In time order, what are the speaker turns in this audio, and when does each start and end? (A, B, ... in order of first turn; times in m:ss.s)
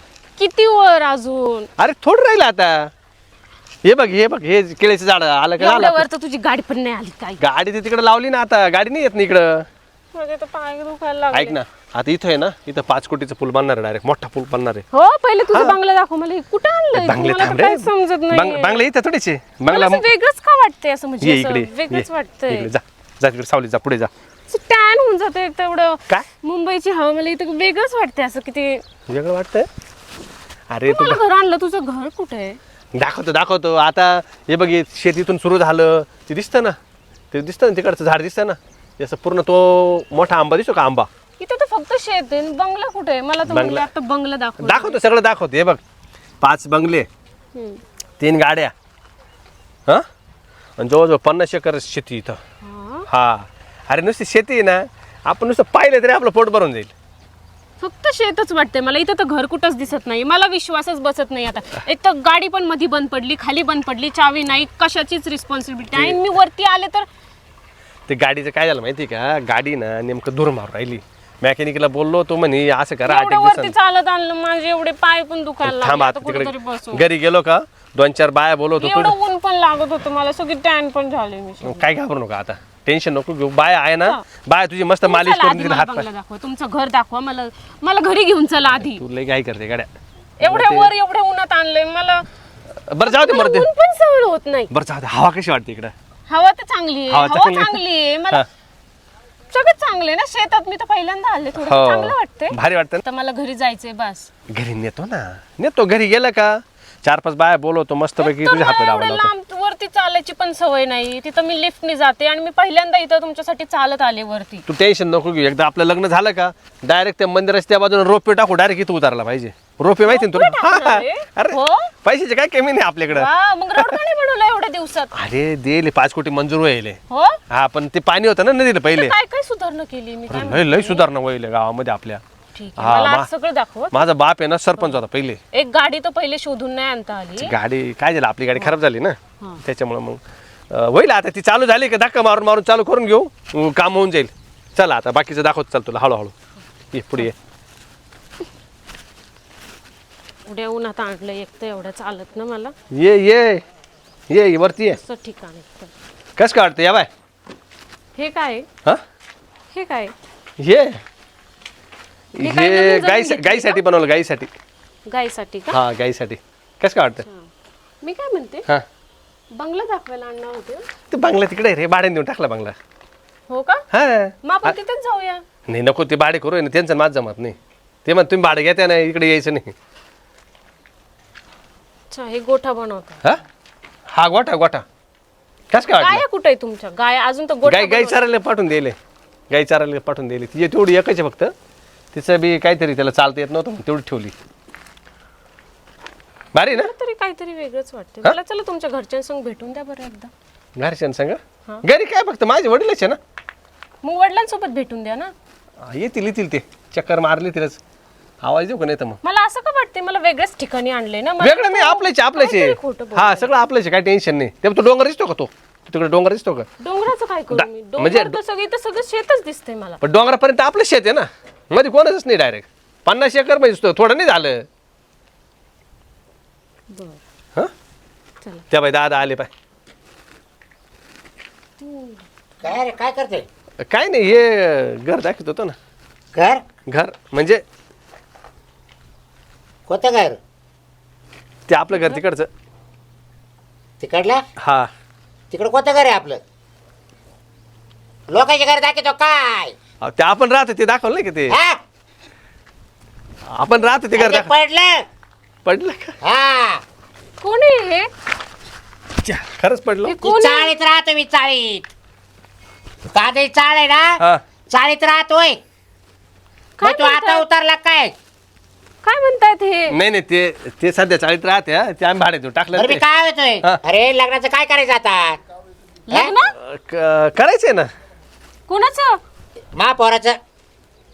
0:00.4-0:01.7 A
0:01.8-0:02.9 B
0:03.8-0:06.0 B
0:05.6-0:07.4 A
0:07.4-0:09.6 B
0:10.1-0:11.6 A
0:11.3-0:14.8 B
0:14.9-0:18.8 A
0:17.0-0:20.0 B
0:19.7-0:22.7 A
0:21.2-0:24.1 B
0:24.5-0:28.8 A
0:29.1-0:29.7 B
0:30.7-0:31.2 B
0:30.9-0:32.6 A
0:32.9-0:36.8 B
0:37.3-0:41.1 B
0:41.4-0:45.0 A
0:43.4-0:43.9 B
0:44.6-0:45.8 B
0:46.4-0:47.1 B
0:48.2-0:48.7 B
0:50.8-0:52.4 B
0:52.6-0:53.0 A
0:53.1-0:56.9 B
0:57.8-1:07.0 A
1:05.9-1:06.2 B
1:08.1-1:13.7 B
1:13.1-1:17.0 A
1:15.6-1:19.1 B
1:18.8-1:21.8 A
1:21.6-1:26.1 B
1:25.0-1:29.0 A
1:28.8-1:29.9 B
1:30.4-1:32.2 A
1:30.4-1:30.9 B
1:32.9-1:33.7 B
1:33.0-1:34.7 A
1:34.7-1:35.9 B
1:36.3-1:38.4 A
1:37.1-1:37.8 B
1:39.5-1:44.3 A
1:41.6-1:43.0 B
1:44.5-1:49.3 B
1:48.2-1:54.6 A
1:54.7-2:03.9 B
2:00.0-2:01.9 A
2:03.1-2:05.1 A
2:05.1-2:07.0 B
2:07.1-2:07.4 A
2:07.5-2:09.1 B
2:08.9-2:11.0 A
2:10.3-2:12.2 B
2:12.5-2:14.0 A
2:12.8-2:13.3 B
2:13.9-2:15.4 B
2:15.5-2:17.5 A
2:17.4-2:20.2 B
2:20.7-2:26.3 B
2:26.9-2:27.3 B
2:30.4-2:32.7 A
2:32.9-2:33.6 B
2:34.3-2:35.0 B
2:35.0-2:35.9 A
2:36.4-2:37.1 B
2:38.1-2:38.7 A
2:39.7-2:40.1 A
2:40.6-2:41.0 B
2:42.4-2:43.8 A
2:42.4-2:44.5 B
2:45.1-2:45.8 A
2:45.7-2:47.2 B
2:48.0-2:48.6 A
2:49.5-2:50.8 A
2:51.1-2:52.8 B
2:53.5-2:53.8 A
2:53.9-2:54.7 B
2:54.4-2:55.4 A
2:55.7-2:59.7 B
3:02.1-3:03.2 A
3:04.1-3:04.8 B
3:05.7-3:06.2 B
3:06.0-3:08.2 A
3:07.6-3:09.0 B
3:09.5-3:11.5 B
3:12.1-3:14.3 B
3:16.5-3:16.9 B
3:16.7-3:20.3 A
3:20.8-3:23.2 B
3:24.0-3:25.3 A
3:25.8-3:27.8 B
3:28.4-3:29.2 B
3:29.2-3:33.5 A
3:31.4-3:36.7 B
3:36.8-3:40.0 A
3:37.5-3:38.4 B
3:40.0-3:44.6 B
3:46.9-3:47.2 A
3:48.7-3:49.5 B
3:51.8-3:52.2 A
3:52.6-3:53.4 C
3:53.9-3:55.8 B
3:56.3-3:56.6 C
3:56.9-3:57.6 B
3:59.9-4:00.4 C
4:01.7-4:02.5 B
4:01.9-4:02.2 A
4:04.0-4:04.4 C
4:04.6-4:04.9 B
4:05.5-4:06.4 C
4:08.3-4:09.7 C
4:10.0-4:11.6 B
4:11.5-4:11.8 C
4:13.6-4:14.5 B
4:14.1-4:15.0 C
4:15.6-4:16.1 B
4:16.2-4:16.8 C
4:17.4-4:18.1 A
4:19.2-4:20.1 B
4:20.0-4:20.7 A
4:20.2-4:21.8 C
4:23.1-4:25.6 C
4:26.8-4:27.4 A
4:26.8-4:28.1 C
4:29.0-4:29.9 A
4:29.9-4:33.0 B
4:32.7-4:35.4 C
4:36.1-4:36.5 A
4:36.6-4:37.9 B
4:38.7-4:39.2 A
4:39.7-4:40.4 C